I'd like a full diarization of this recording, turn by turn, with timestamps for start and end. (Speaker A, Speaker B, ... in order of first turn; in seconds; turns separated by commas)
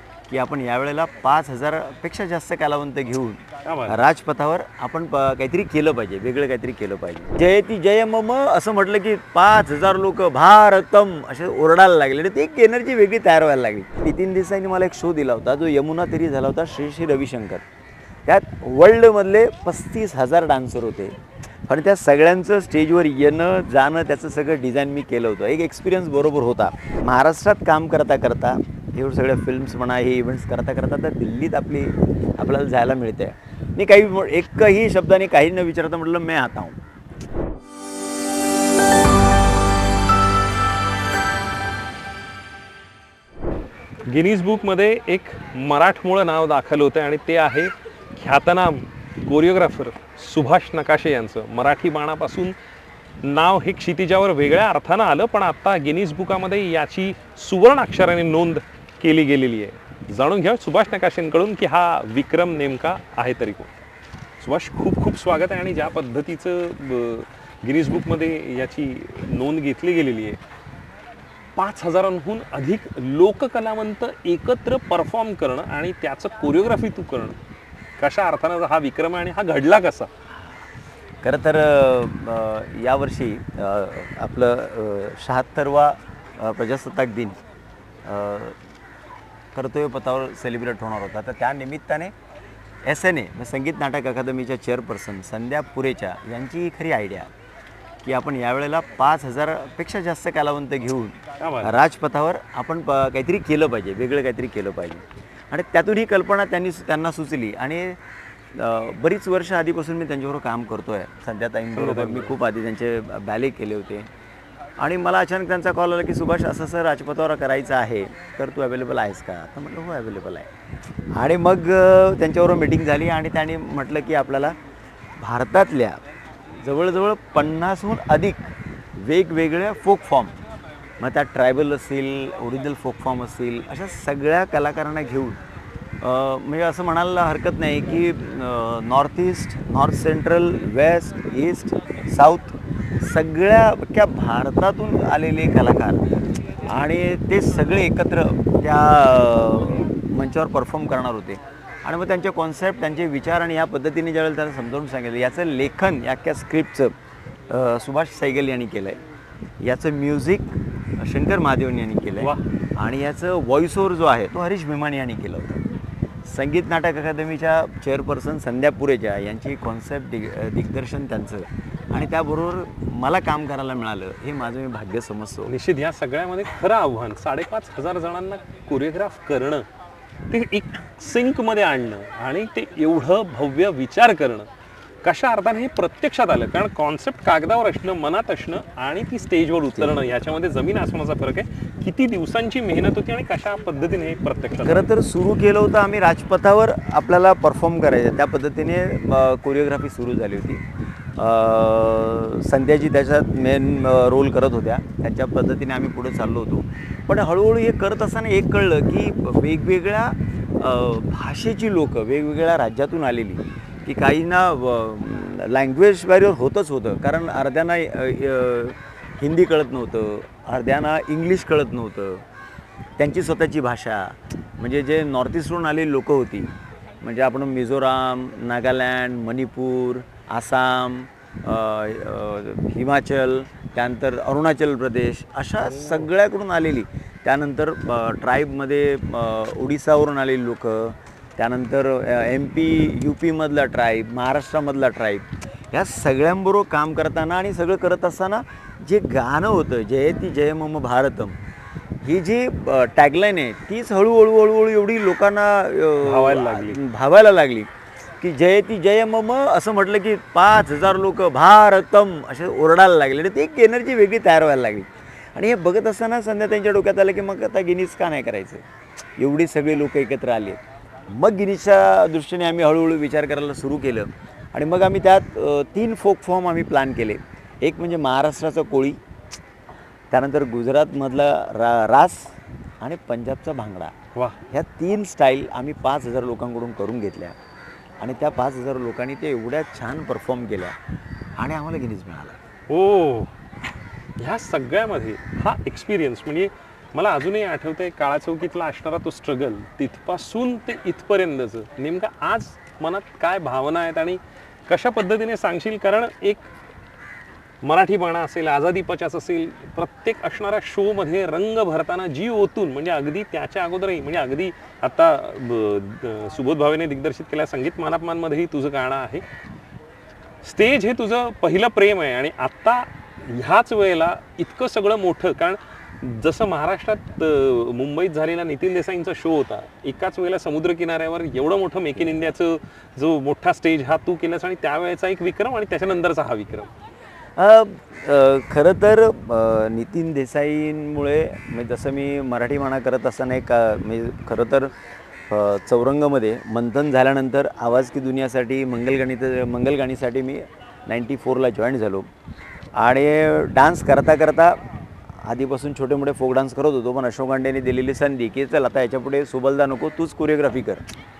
Speaker A: 0.3-17.6, Speaker B: 3.6-4.0, Speaker A: 18.2-36.8, Speaker B: 44.0-52.5, Speaker B: 53.2-63.8, Speaker B: 64.4-70.4, Speaker B: 71.5-77.4, Speaker B: 78.0-80.1, Speaker A: 81.2-87.4, Speaker A: 88.0-88.6, Speaker A: 89.5-92.1, Speaker A: 92.8-97.3, Speaker A: 98.0-108.0, Speaker B: 101.4-101.8, Speaker A: 108.5-114.1, Speaker B: 111.7-112.3, Speaker A: 114.8-120.5, Speaker A: 121.1-124.6, Speaker A: 125.2-126.0, Speaker A: 126.6-130.3, Speaker A: 131.0-135.4, Speaker A: 136.0-156.9, Speaker A: 157.5-159.0, Speaker A: 159.6-165.6, Speaker A: 166.2-175.5, Speaker B: 175.5-179.7, Speaker B: 180.3-184.5, Speaker B: 185.0-194.9, Speaker A: 194.6-200.6, Speaker A: 201.2-222.2, Speaker A: 223.0-251.3, Speaker A: 252.0-268.6, Speaker B: 256.0-256.8, Speaker A: 269.2-279.0, Speaker A: 280.1-283.9, Speaker A: 284.5-287.4, Speaker A: 288.0-290.8, Speaker A: 291.4-292.4, Speaker B: 292.7-293.3, Speaker B: 294.2-306.5, Speaker B: 307.6-319.2, Speaker B: 320.4-336.7, Speaker A: 337.4-344.7, Speaker A: 345.3-352.1, Speaker A: 352.8-354.7, Speaker A: 355.2-360.8